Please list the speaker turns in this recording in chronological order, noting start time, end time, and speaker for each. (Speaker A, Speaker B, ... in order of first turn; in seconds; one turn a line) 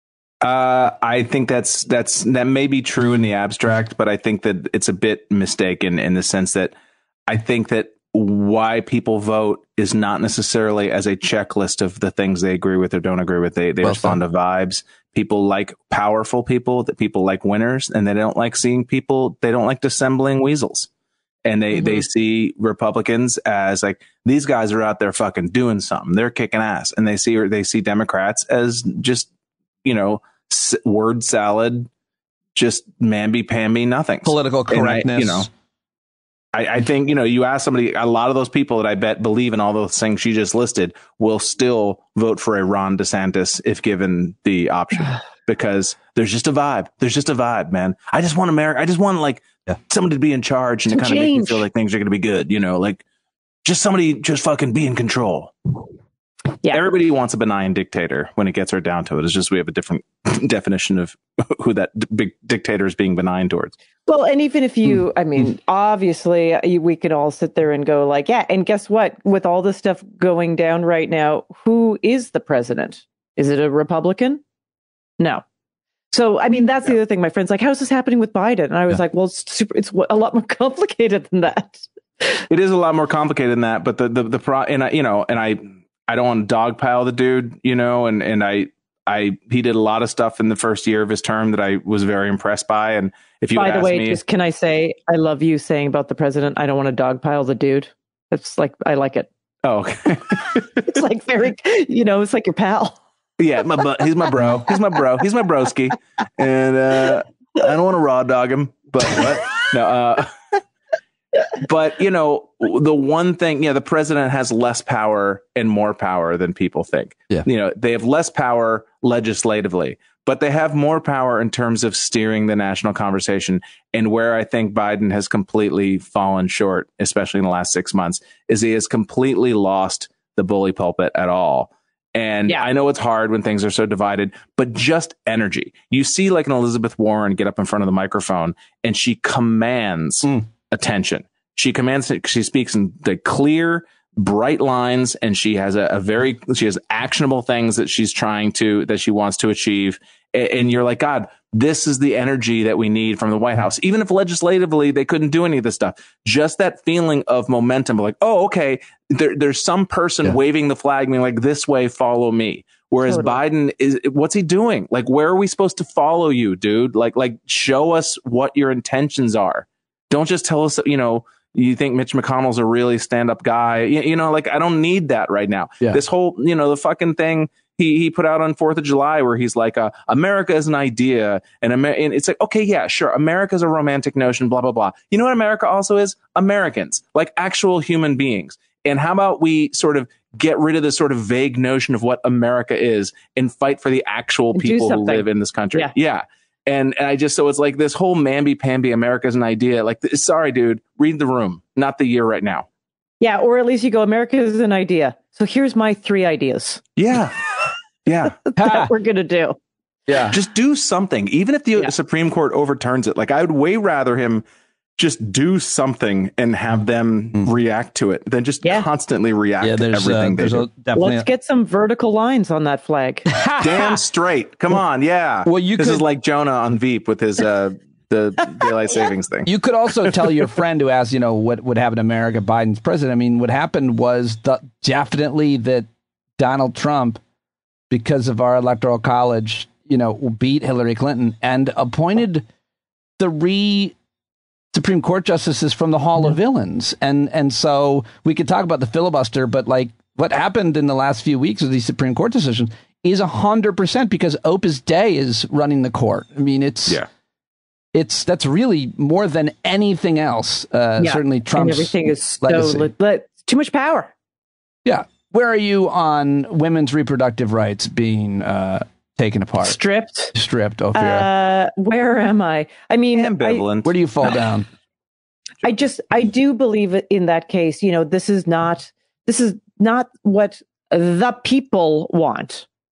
Speaker A: 0.4-6.7
Speaker A: 7.3-20.9
Speaker B: 13.8-14.2
Speaker A: 21.4-29.3
Speaker C: 21.8-22.0
Speaker A: 29.8-31.9
Speaker A: 32.5-35.5
Speaker B: 34.2-35.5
Speaker A: 36.5-53.0
Speaker C: 50.9-51.6
Speaker A: 53.6-55.5
Speaker A: 56.7-63.7
Speaker C: 64.1-74.4
Speaker C: 76.1-82.4
Speaker A: 82.5-94.2
Speaker C: 93.5-99.3
Speaker A: 99.6-101.0
Speaker C: 100.8-103.0
Speaker A: 103.4-110.3
Speaker A: 111.6-202.7
Speaker C: 163.1-163.4
Speaker C: 194.5-195.9
Speaker C: 203.2-206.8
Speaker A: 207.0-207.5
Speaker A: 208.1-208.4
Speaker C: 208.5-209.6
Speaker B: 208.6-208.9
Speaker B: 210.1-210.4
Speaker A: 210.3-214.4
Speaker A: 215.0-220.7
Speaker B: 219.6-221.3
Speaker C: 220.9-223.3
Speaker B: 223.3-224.0
Speaker A: 223.6-229.5
Speaker B: 225.4-226.1
Speaker B: 229.4-235.9
Speaker B: 236.4-237.2
Speaker B: 237.9-242.4
Speaker B: 243.2-243.9
Speaker B: 244.7-257.0
Speaker B: 257.9-262.9
Speaker C: 261.0-264.1
Speaker B: 264.8-269.8
Speaker C: 269.6-270.3
Speaker B: 270.3-271.3
Speaker C: 270.9-273.6
Speaker A: 273.1-273.9
Speaker B: 273.8-274.7
Speaker C: 275.6-282.6